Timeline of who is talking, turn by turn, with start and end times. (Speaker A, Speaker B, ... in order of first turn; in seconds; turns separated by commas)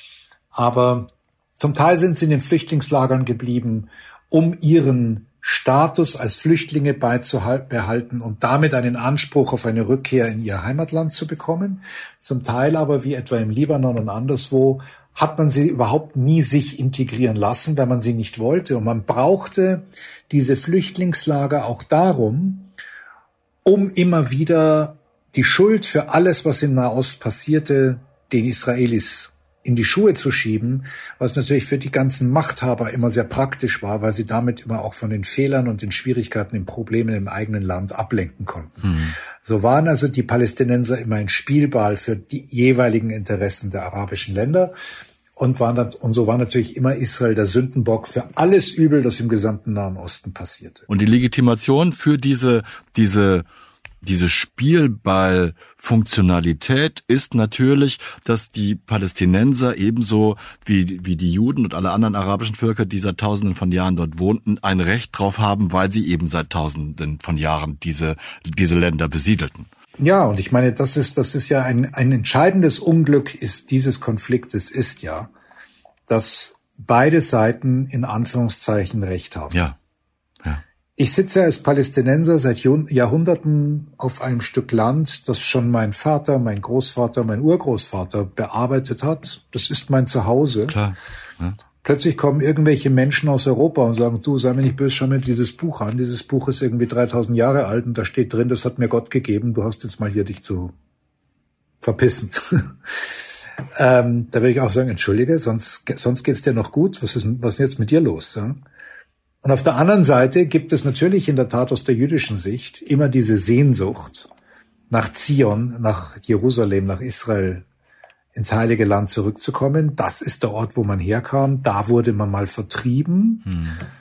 Speaker A: 0.5-22.7, Speaker A: 23.6-44.7, Speaker B: 38.8-39.2, Speaker A: 45.4-50.9, Speaker B: 50.9-53.5, Speaker B: 54.0-69.7, Speaker A: 70.0-75.3, Speaker A: 76.1-79.6, Speaker A: 81.0-90.8, Speaker B: 90.7-91.6, Speaker A: 91.8-100.7, Speaker A: 101.8-102.7, Speaker A: 103.8-108.6, Speaker A: 109.4-114.3, Speaker A: 114.9-117.7, Speaker A: 118.3-123.5, Speaker B: 123.5-123.8